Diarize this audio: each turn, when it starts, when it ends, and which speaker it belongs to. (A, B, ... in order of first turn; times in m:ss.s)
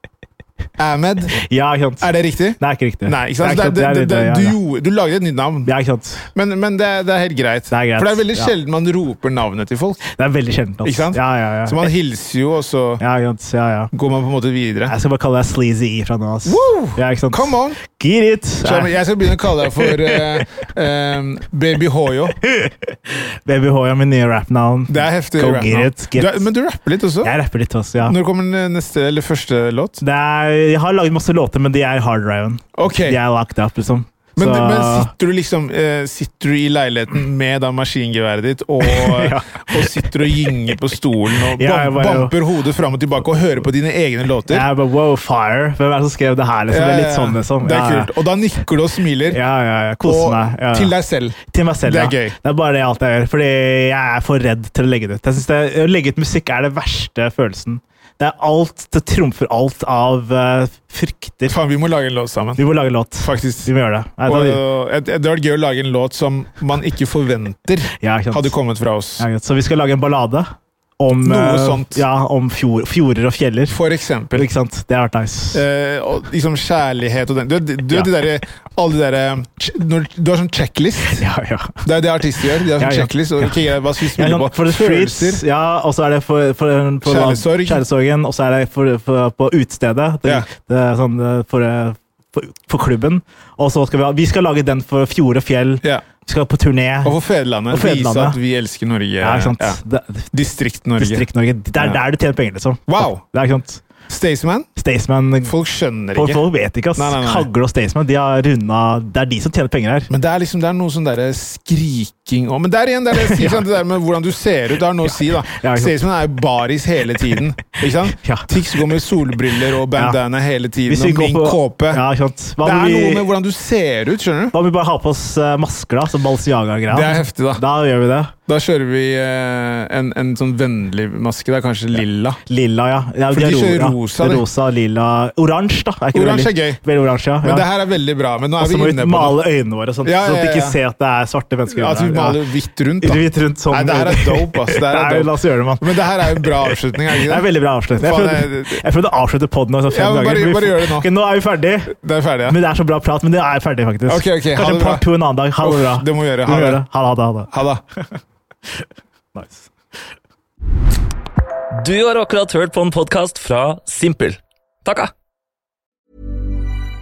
0:00.8-0:01.4 A
0:01.4-0:04.6 B
0:02.0-0:05.7 A
0:05.6-0:06.3 B
0:06.3-0:10.0 A
0:07.7-0:08.5 B
0:10.1-0:11.9 B
0:10.8-0:13.0 A
0:13.0-0:13.9 B
0:13.9-0:14.9 A
0:14.9-0:19.0 B
0:16.4-0:17.8 A
0:18.6-0:22.4 A
0:19.6-0:20.1 B
0:22.5-0:23.0 B
0:23.4-0:26.5 B
0:24.9-0:27.3 A
0:27.2-0:28.2 B
0:28.0-0:30.0 A
0:30.0-0:35.1 B
0:32.8-0:33.2 A
0:34.4-0:44.7 A
0:38.8-0:40.1 B
0:41.6-0:42.4 B
0:44.5-0:48.1 B
0:46.7-0:49.4 A
0:49.3-1:01.6 B
0:50.0-0:52.4 A
1:01.5-1:02.6 A
1:02.6-1:04.6 B
1:03.2-1:03.7 A
1:04.2-1:09.3 A
1:08.0-1:08.5 B
1:09.2-1:13.8 B
1:11.2-1:12.1 A
1:13.7-1:14.5 A
1:14.3-1:15.6 B
1:15.5-1:21.3 A
1:21.1-1:21.8 B
1:21.8-1:25.4 A
1:22.8-1:37.2 B
1:27.0-1:27.8 A
1:37.0-1:42.0 A
1:37.7-1:38.4 B
1:39.2-1:40.3 B
1:41.0-1:43.8 B
1:42.9-1:43.2 A
1:44.1-1:44.7 A
1:44.8-1:45.5 B
1:45.4-1:47.5 A
1:46.1-1:50.1 B
1:50.1-2:02.0 A
1:53.1-1:53.7 B
1:55.1-1:56.0 B
1:58.2-1:58.5 B
2:00.9-2:03.3 B
2:02.6-2:04.5 A
2:04.5-2:08.3 B
2:06.9-2:07.6 A
2:08.5-2:12.4 A
2:12.5-2:17.7 B
2:13.3-2:14.4 A
2:16.1-2:16.8 A
2:17.4-2:19.4 A
2:18.6-2:22.4 B
2:20.0-2:20.8 A
2:21.7-2:27.4 A
2:23.0-2:32.0 B
2:28.0-2:28.8 A
2:29.9-2:31.1 A
2:31.9-2:32.6 A
2:32.5-2:37.5 B
2:34.1-2:35.1 A
2:35.6-2:36.8 A
2:37.5-2:37.8 A
2:39.4-2:39.7 B
2:41.7-2:45.1 C